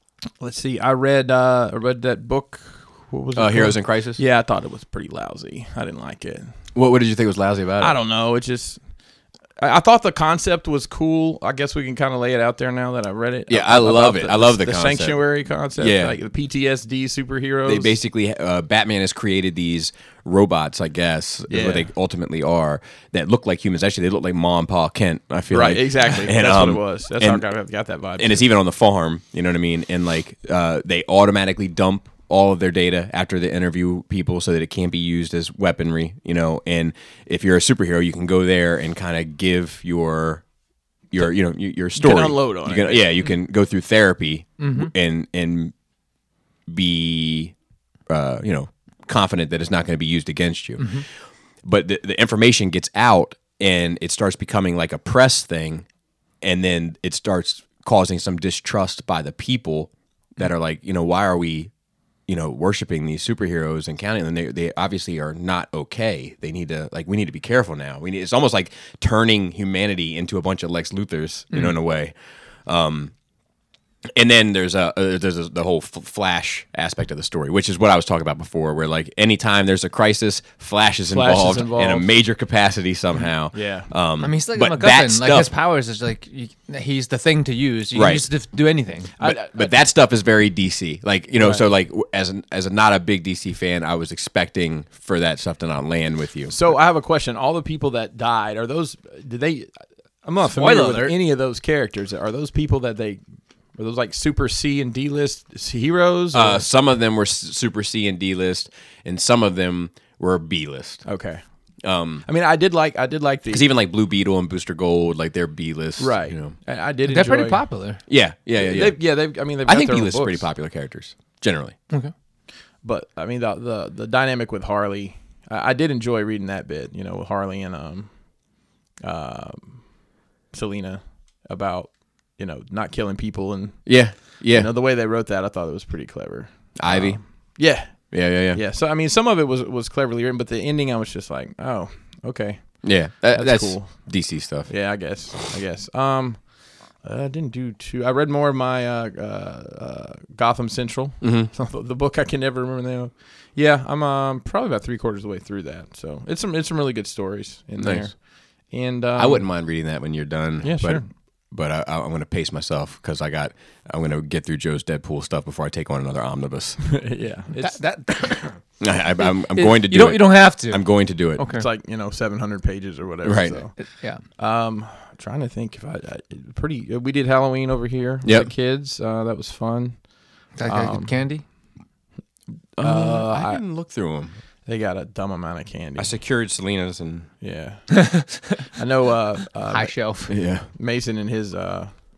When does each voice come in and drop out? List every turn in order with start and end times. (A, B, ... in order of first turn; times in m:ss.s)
0:00.4-0:06.5 A
0:03.4-0:04.2 B
0:06.7-0:08.0 B
0:07.8-0:08.8 A
0:09.6-0:18.0 A
0:13.5-0:15.2 B
0:15.8-0:16.2 B
0:17.7-0:27.4 B
0:21.5-0:21.9 A
0:25.5-0:28.5 A
0:28.2-0:40.4 B
0:41.1-0:45.7 B
0:42.0-0:43.2 A
0:44.6-0:44.9 C
0:46.7-0:47.6 B
0:48.1-0:51.0 B
0:50.8-0:51.0 C
0:51.6-0:55.9 B
0:56.4-1:01.7 B
1:02.3-1:12.1 B
1:12.7-1:13.1 B
1:14.2-1:25.5 B
1:21.1-1:22.1 A
1:23.5-1:23.9 A
1:24.2-1:29.1 C
1:27.9-1:28.2 B
1:29.2-1:29.7 A
1:29.2-1:36.6 B
1:31.4-1:31.7 A
1:36.5-1:39.7 A
1:40.2-1:43.2 A
1:40.4-1:41.2 C
1:43.8-1:46.6 A
1:46.3-1:51.0 B
1:51.0-1:51.4 A
1:51.8-1:52.3 B
1:52.2-1:53.7 A
1:53.5-1:56.6 B
1:56.0-1:57.6 A
1:57.1-1:58.0 C
1:58.1-2:01.8 B
1:58.6-2:00.5 A
2:02.8-2:08.2 A
2:09.0-2:09.8 A
2:10.5-2:39.5 A
2:13.9-2:14.7 B
2:16.8-2:18.6 B
2:22.8-2:24.7 B
2:31.2-2:31.5 B
2:37.8-2:38.1 B
2:39.2-2:46.8 B
2:40.6-2:41.0 A
2:46.8-2:47.8 A
2:47.6-2:48.6 C
2:48.8-2:51.4 B
2:49.2-2:51.6 C
2:51.5-3:00.0 A
2:53.2-2:53.6 B
2:53.8-2:54.2 C
2:58.2-2:58.5 B
3:00.6-3:01.4 C
3:00.6-3:01.2 A
3:02.8-3:04.4 B
3:02.8-3:03.6 A
3:04.7-3:06.1 A
3:06.0-3:07.3 B
3:07.4-3:12.0 A
3:08.0-3:08.7 C
3:09.7-3:10.4 C
3:10.3-3:10.7 B